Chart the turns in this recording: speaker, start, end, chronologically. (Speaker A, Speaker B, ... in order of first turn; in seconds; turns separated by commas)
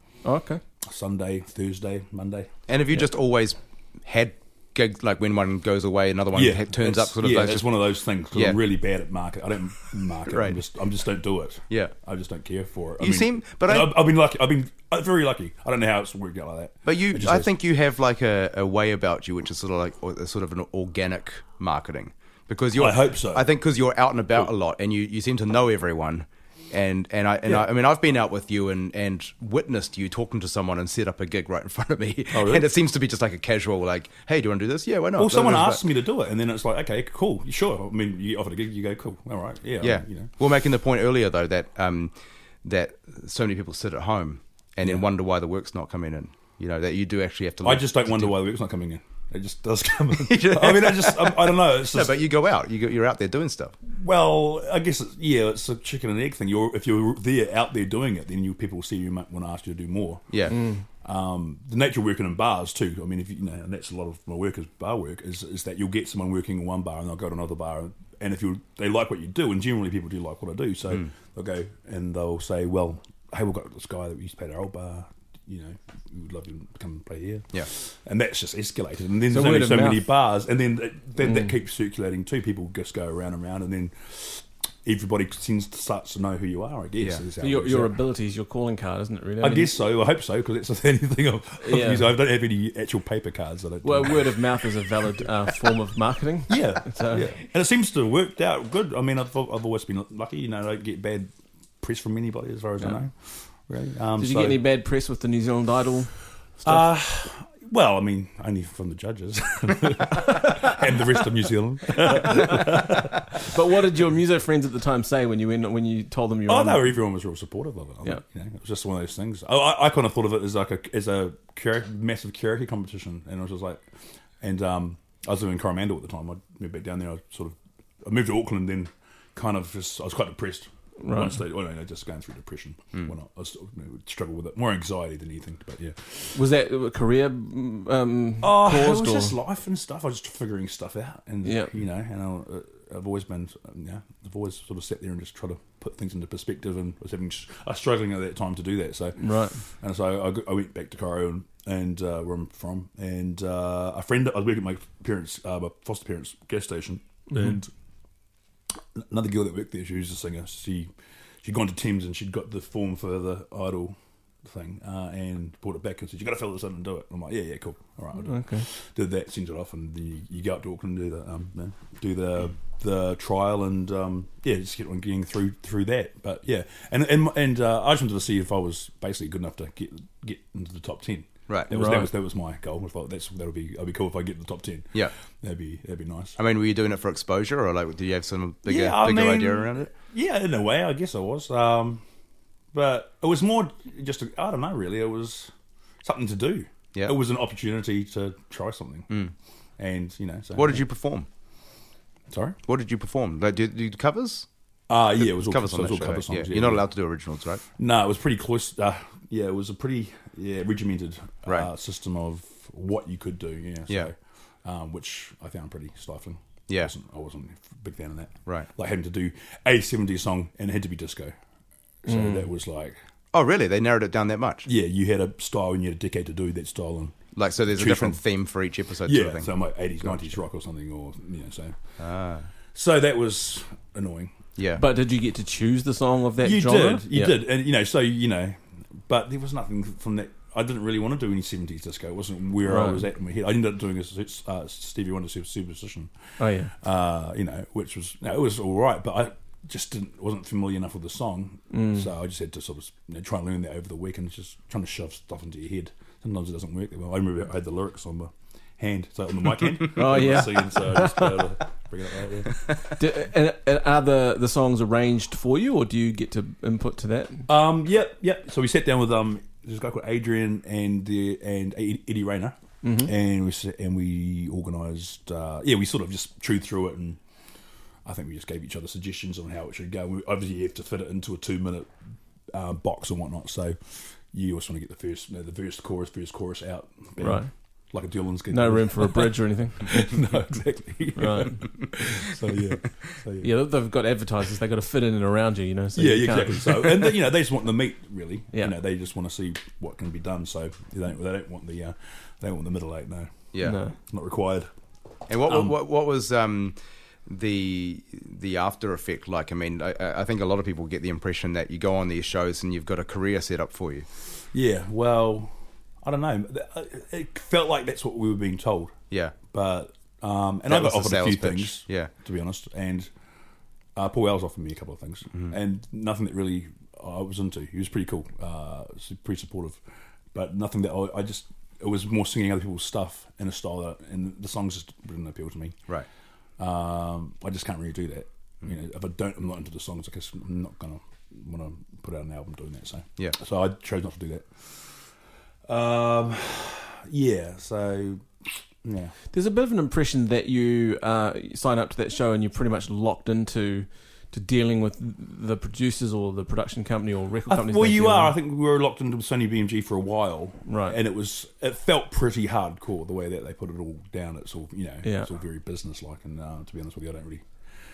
Speaker A: 0.2-0.6, Speaker B: 0.8-2.5, Speaker C: 2.7-7.7, Speaker B: 6.3-17.5, Speaker C: 8.3-8.6, Speaker C: 10.3-10.6, Speaker C: 13.0-14.0, Speaker C: 16.9-35.8, Speaker B: 22.8-23.5, Speaker B: 32.3-32.7, Speaker B: 35.1-40.3, Speaker C: 39.8-48.4, Speaker B: 47.6-52.2, Speaker C: 50.1-53.7, Speaker B: 53.9-60.4, Speaker C: 60.3-60.5, Speaker A: 60.5-60.8, Speaker B: 60.9-87.9, Speaker A: 79.3-80.1, Speaker A: 81.2-81.5, Speaker A: 87.4-89.7, Speaker B: 89.4-94.5, Speaker A: 91.6-92.1, Speaker A: 93.8-97.3, Speaker B: 96.5-104.6, Speaker A: 104.2-106.8, Speaker B: 106.6-113.5, Speaker A: 113.5-116.9, Speaker B: 116.5-123.9, Speaker B: 124.4-136.4, Speaker A: 131.0-131.4, Speaker A: 136.3-139.3, Speaker B: 138.4-157.7, Speaker A: 141.4-141.7, Speaker A: 149.2-149.6, Speaker A: 157.3-157.5, Speaker B: 158.9-160.9, Speaker B: 161.4-186.4, Speaker A: 168.2-168.6, Speaker A: 181.7-182.1, Speaker C: 186.4-189.9, Speaker B: 188.7-192.0, Speaker B: 192.7-195.5, Speaker B: 196.0-199.1, Speaker B: 199.8-200.8, Speaker C: 200.5-201.3, Speaker B: 202.3-202.6, Speaker C: 202.7-204.5, Speaker B: 204.9-206.8, Speaker C: 205.2-207.6, Speaker B: 207.8-221.3, Speaker B: 222.0-223.0, Speaker A: 222.1-222.5, Speaker C: 223.3-224.7, Speaker B: 224.6-228.2, Speaker C: 227.3-229.5, Speaker B: 229.0-231.8, Speaker C: 230.0-230.3, Speaker C: 232.0-232.5, Speaker B: 232.7-234.3, Speaker C: 234.6-234.8, Speaker A: 234.8-237.4, Speaker B: 236.4-262.7, Speaker A: 242.7-243.0, Speaker A: 246.4-246.7, Speaker A: 251.7-252.1, Speaker A: 259.9-261.2, Speaker A: 262.9-267.5, Speaker B: 267.5-277.2, Speaker A: 272.8-273.1, Speaker B: 278.0-281.9, Speaker B: 282.5-293.5, Speaker A: 287.2-287.5, Speaker A: 288.5-290.2, Speaker A: 291.1-291.6, Speaker A: 293.4-297.1, Speaker B: 295.9-303.4, Speaker C: 303.5-303.8, Speaker A: 303.6-303.9, Speaker B: 304.0-304.7, Speaker C: 305.3-314.1, Speaker B: 305.4-305.8, Speaker B: 314.5-323.1, Speaker C: 319.1-319.4, Speaker C: 320.7-322.1, Speaker B: 323.9-329.8, Speaker B: 330.3-335.8, Speaker B: 336.6-344.9, Speaker B: 345.7-348.3, Speaker B: 348.8-349.1, Speaker A: 349.3-358.3, Speaker B: 357.5-367.5, Speaker A: 360.6-361.0, Speaker A: 365.0-365.3